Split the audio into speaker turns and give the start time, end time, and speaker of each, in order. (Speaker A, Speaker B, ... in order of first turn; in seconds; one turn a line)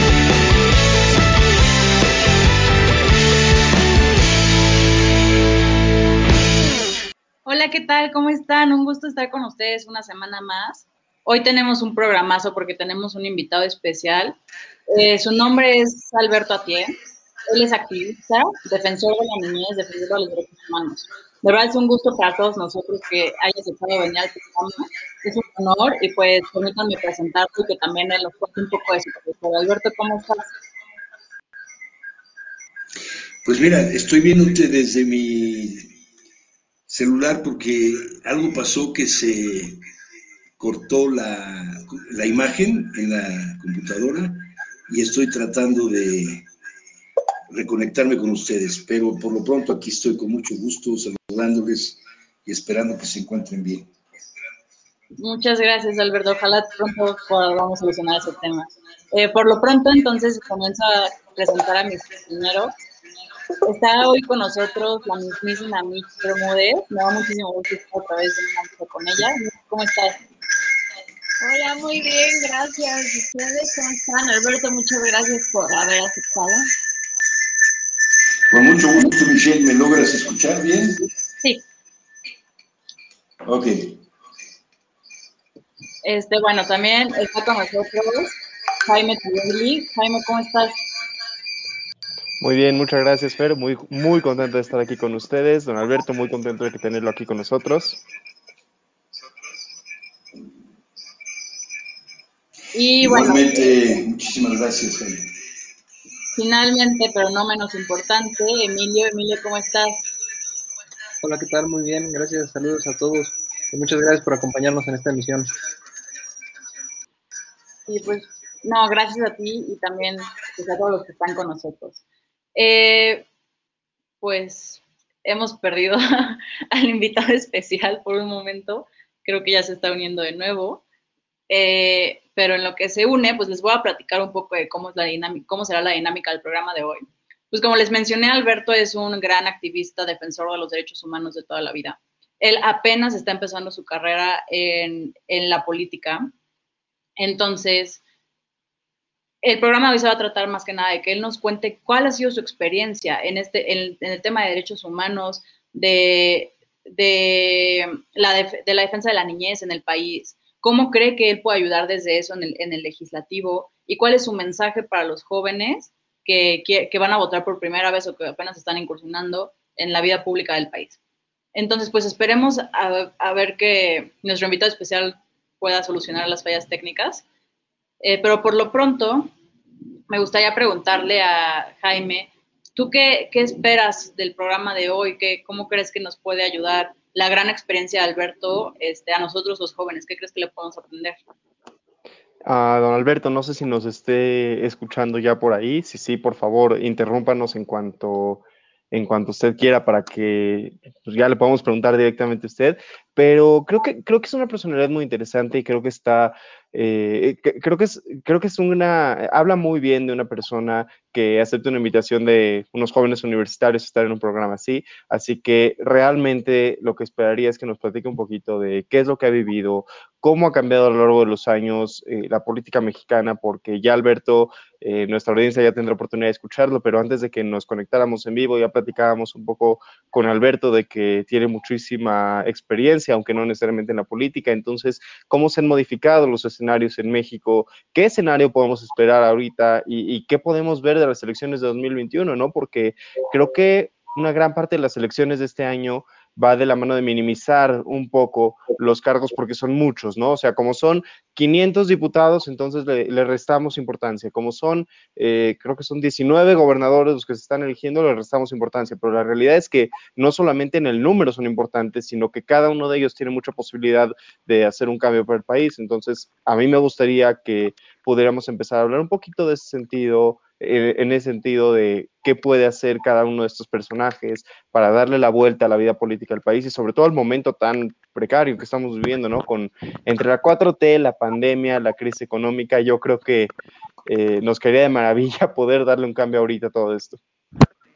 Speaker A: 7.4-14.4
Speaker A: 14.9-16.9
Speaker A: 17.5-30.5
Speaker B: 33.4-35.9
Speaker B: 36.9-39.8
Speaker B: 40.6-46.5
Speaker B: 47.5-53.9
Speaker A: 55.2-62.7
Speaker A: 63.6-70.2
Speaker C: 71.4-76.7
Speaker B: 78.5-81.0
Speaker B: 83.4-84.0
Speaker A: 86.0-90.8
Speaker D: 92.4-98.0
Speaker A: 102.7-104.0
Speaker B: 103.0-105.3
Speaker A: 106.3-110.0
Speaker E: 111.2-115.5
Speaker A: 117.9-122.0
Speaker A: 122.5-123.2
Speaker A: 124.2-130.8
Speaker A: 131.5-146.3
Speaker A: 147.2-148.0
Speaker A: 149.4-171.0
Speaker A: 171.5-177.2
Speaker A: 178.0-179.3
Speaker A: 180.1-191.2
Speaker D: 192.4-283.5
Speaker D: 284.1-287.2